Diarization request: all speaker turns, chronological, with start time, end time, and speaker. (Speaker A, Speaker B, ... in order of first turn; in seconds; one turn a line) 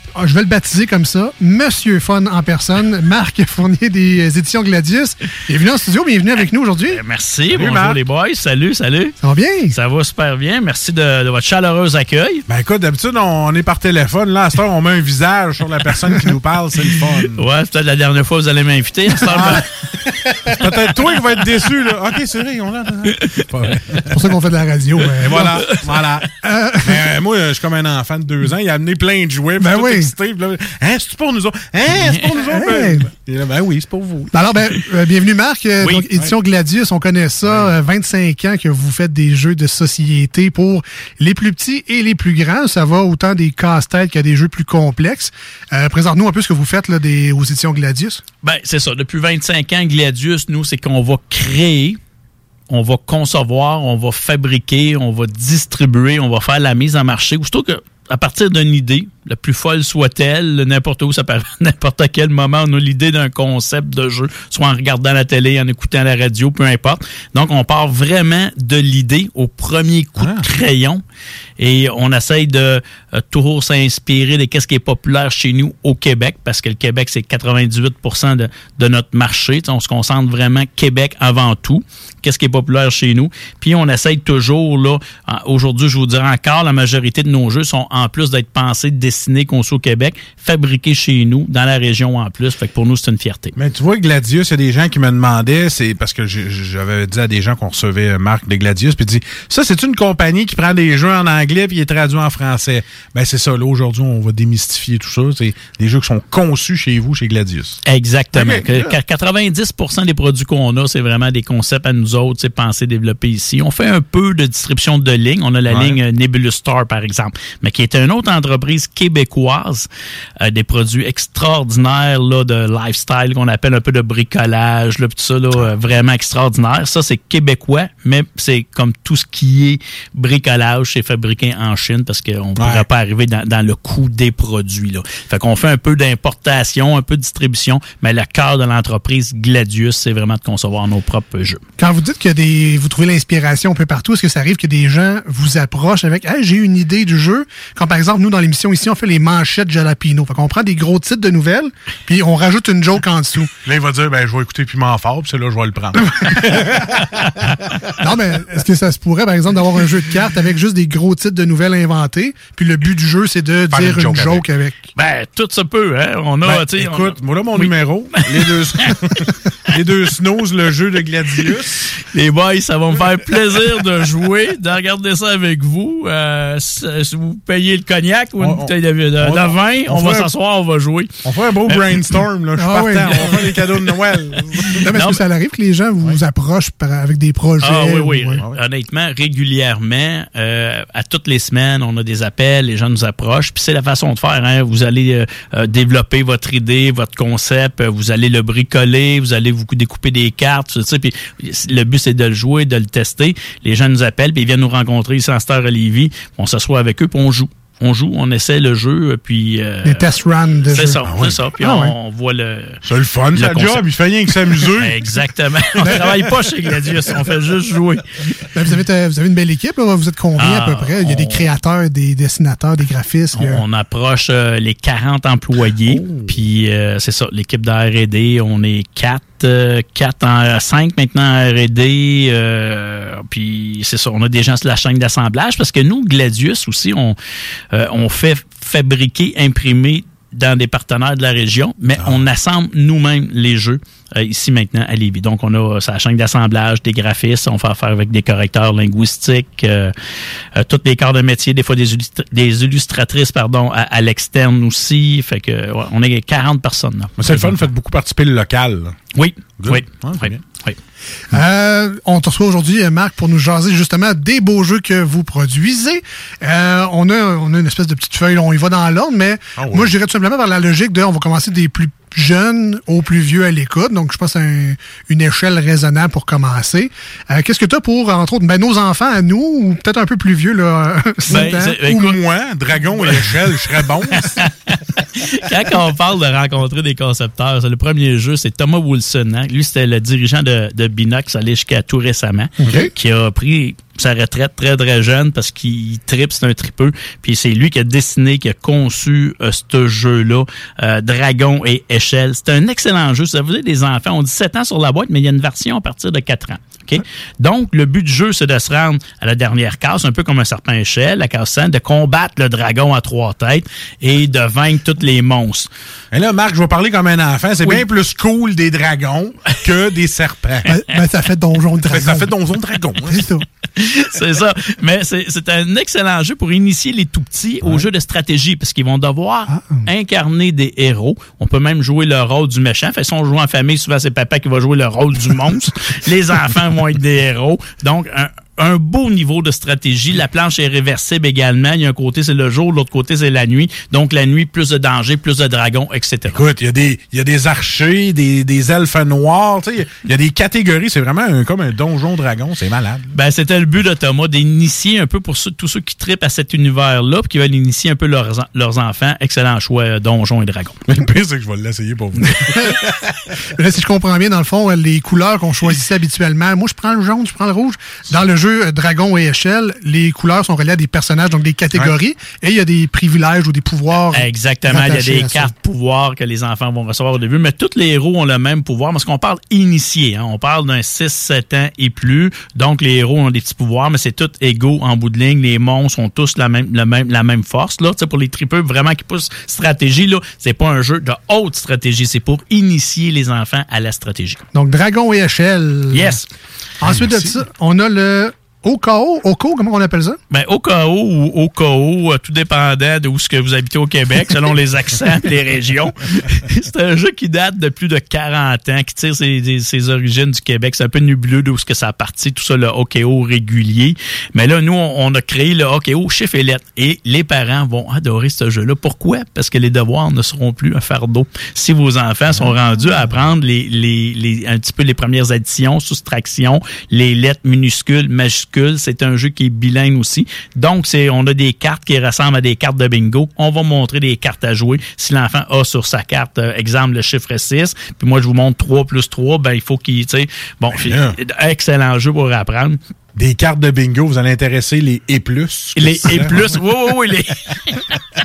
Speaker A: 0.2-7.0
Speaker B: 6.9-9.2
Speaker C: 7.5-8.0
Speaker A: 9.2-9.7
Speaker B: 9.7-12.4
Speaker C: 12.5-17.4
Speaker B: 17.4-19.6
Speaker C: 19.2-24.2
Speaker A: 24.1-25.8
Speaker C: 25.2-26.3
Speaker A: 26.4-26.8
Speaker C: 26.8-34.3
Speaker A: 29.6-30.1
Speaker B: 31.9-32.3
Speaker A: 32.4-33.1
Speaker A: 34.3-48.2
Speaker B: 35.8-36.1
Speaker C: 37.4-37.7
Speaker B: 48.4-52.0
Speaker B: 52.7-71.0
Speaker C: 70.2-70.5
Speaker B: 71.6-93.5
Speaker C: 93.6-107.8
Speaker B: 107.9-119.9
Speaker C: 108.3-109.0
Speaker C: 115.7-116.0
Speaker B: 120.4-141.6
Speaker C: 132.6-132.9
Speaker A: 141.8-153.5
Speaker C: 153.6-157.2
Speaker A: 158.0-164.9
Speaker C: 163.7-164.4
Speaker B: 165.0-167.7
Speaker C: 166.4-171.9
Speaker B: 168.3-168.9
Speaker B: 172.1-181.1
Speaker C: 173.0-173.8
Speaker C: 178.4-180.3
Speaker C: 181.2-184.9
Speaker B: 181.7-182.0
Speaker A: 182.6-183.6
Speaker A: 184.8-188.4
Speaker B: 184.9-185.2
Speaker B: 187.6-210.1
Speaker A: 209.8-211.0
Speaker B: 210.7-212.8
Speaker C: 211.0-211.4
Speaker A: 211.6-211.9
Speaker C: 212.8-215.2
Speaker B: 213.3-213.9
Speaker B: 214.8-218.0
Speaker C: 215.8-217.3
Speaker A: 218.5-223.6
Speaker B: 220.4-221.4
Speaker B: 223.4-237.2
Speaker C: 225.9-226.4
Speaker B: 237.7-249.9
Speaker C: 242.0-242.2
Speaker B: 250.6-257.6
Speaker C: 257.2-259.0
Speaker B: 259.1-260.8
Speaker C: 259.6-260.4
Speaker A: 261.3-281.8
Speaker C: 269.6-269.9
Speaker B: 281.3-282.2
Speaker C: 281.3-284.4
Speaker B: 282.9-283.3
Speaker B: 284.1-315.7
Speaker A: 292.6-292.9
Speaker C: 316.1-320.7
Speaker A: 320.7-322.3
Speaker C: 321.9-323.3
Speaker A: 323.1-323.4
Speaker B: 323.8-346.4
Speaker C: 327.6-327.9
Speaker A: 329.5-329.8
Speaker C: 346.3-353.1
Speaker B: 353.1-360.8
Speaker C: 360.9-362.9
Speaker A: 363.6-375.5
Speaker B: 374.1-394.4
Speaker A: 394.5-396.2
Speaker B: 395.9-396.2
Speaker A: 396.8-400.2
Speaker C: 396.8-397.4
Speaker B: 400.3-442.8
Speaker C: 422.3-423.2
Speaker C: 440.7-441.2
Speaker C: 443.1-446.6
Speaker B: 445.8-447.3